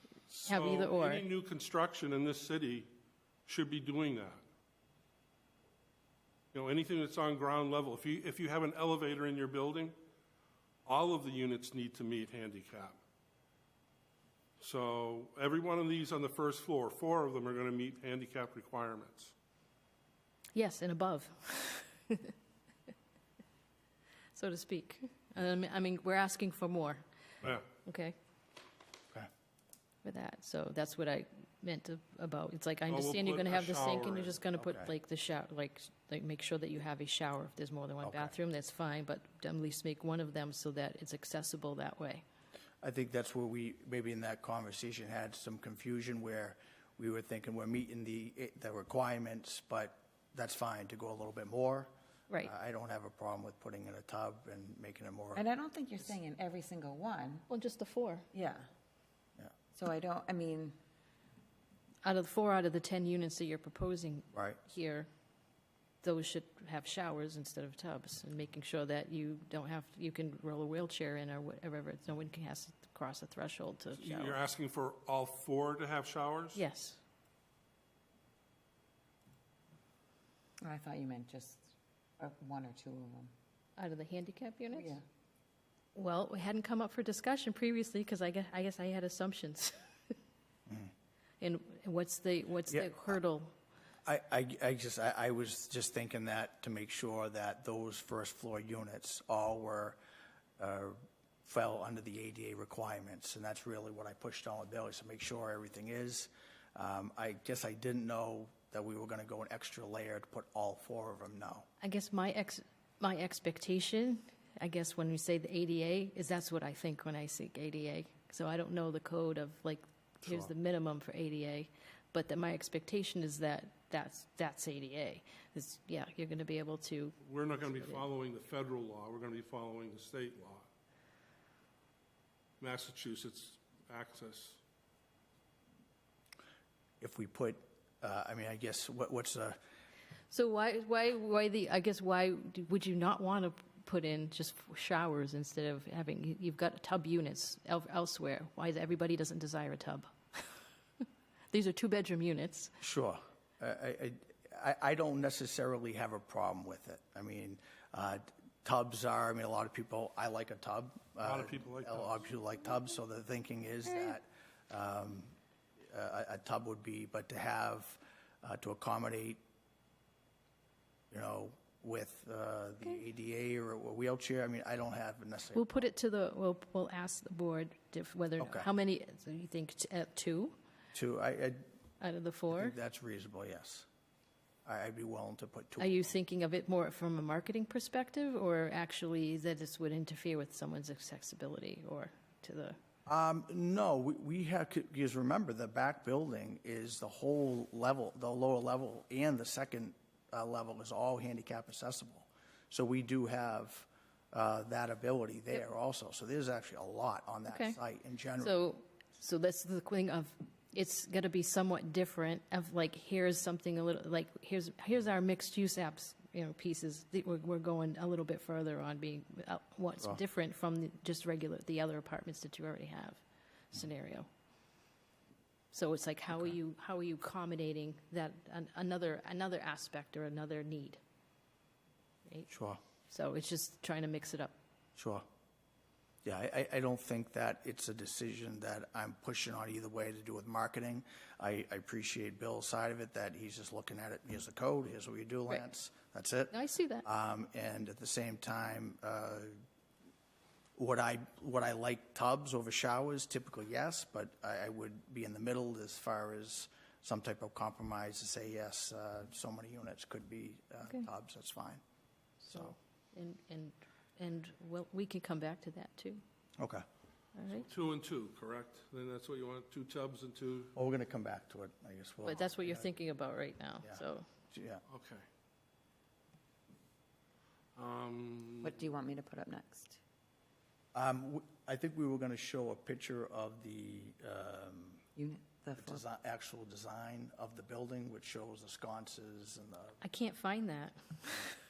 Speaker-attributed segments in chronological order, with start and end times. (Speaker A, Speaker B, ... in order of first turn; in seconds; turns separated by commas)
Speaker A: 0.3-2.9, Speaker B: 0.5-1.2, Speaker A: 3.5-4.4, Speaker A: 6.5-9.9, Speaker A: 10.9-13.0, Speaker A: 14.6-19.3, Speaker B: 20.6-22.3, Speaker B: 24.4-27.1, Speaker B: 27.9-28.1, Speaker B: 30.0-42.2, Speaker A: 32.9-34.4, Speaker C: 34.6-34.9, Speaker C: 38.0-38.3, Speaker C: 42.8-51.9, Speaker C: 52.4-55.5, Speaker D: 55.4-57.5, Speaker B: 57.5-58.3, Speaker D: 58.3-58.7, Speaker D: 59.7-60.8, Speaker B: 62.0-65.1, Speaker C: 64.3-64.6, Speaker B: 66.0-74.4, Speaker A: 74.0-76.6, Speaker B: 76.5-77.0, Speaker D: 80.6-83.3, Speaker B: 83.8-85.0, Speaker D: 84.7-85.0, Speaker B: 86.0-90.1, Speaker B: 91.4-93.5, Speaker C: 92.7-93.2, Speaker C: 94.0-100.0, Speaker C: 100.6-111.7, Speaker B: 111.8-128.0, Speaker C: 120.2-120.5, Speaker A: 127.2-130.7, Speaker A: 132.6-134.6, Speaker C: 137.0-139.6, Speaker B: 140.3-150.6, Speaker B: 151.5-152.7, Speaker C: 152.8-165.3, Speaker A: 161.2-162.3, Speaker C: 165.9-169.4, Speaker C: 171.1-175.9, Speaker B: 175.6-180.6, Speaker C: 178.4-178.7, Speaker C: 180.9-181.6, Speaker B: 182.0-182.8, Speaker C: 182.5-183.9, Speaker C: 184.7-186.1, Speaker B: 185.8-192.8, Speaker C: 193.1-208.5, Speaker B: 207.5-207.8, Speaker B: 208.4-224.3, Speaker B: 225.7-231.0, Speaker C: 232.5-232.8, Speaker B: 233.1-234.6, Speaker C: 235.0-235.2, Speaker C: 236.2-246.5, Speaker B: 246.5-247.1, Speaker C: 247.1-249.6, Speaker C: 250.8-261.8, Speaker B: 262.4-266.2, Speaker C: 262.4-262.8, Speaker C: 266.6-266.8, Speaker B: 267.4-267.7, Speaker A: 267.5-270.7, Speaker C: 270.8-272.9, Speaker B: 272.2-274.3, Speaker C: 274.5-274.8, Speaker A: 274.9-275.2, Speaker A: 277.8-278.8, Speaker D: 278.6-280.0, Speaker C: 280.9-285.1, Speaker D: 285.2-286.0, Speaker C: 285.8-290.0, Speaker B: 290.0-291.5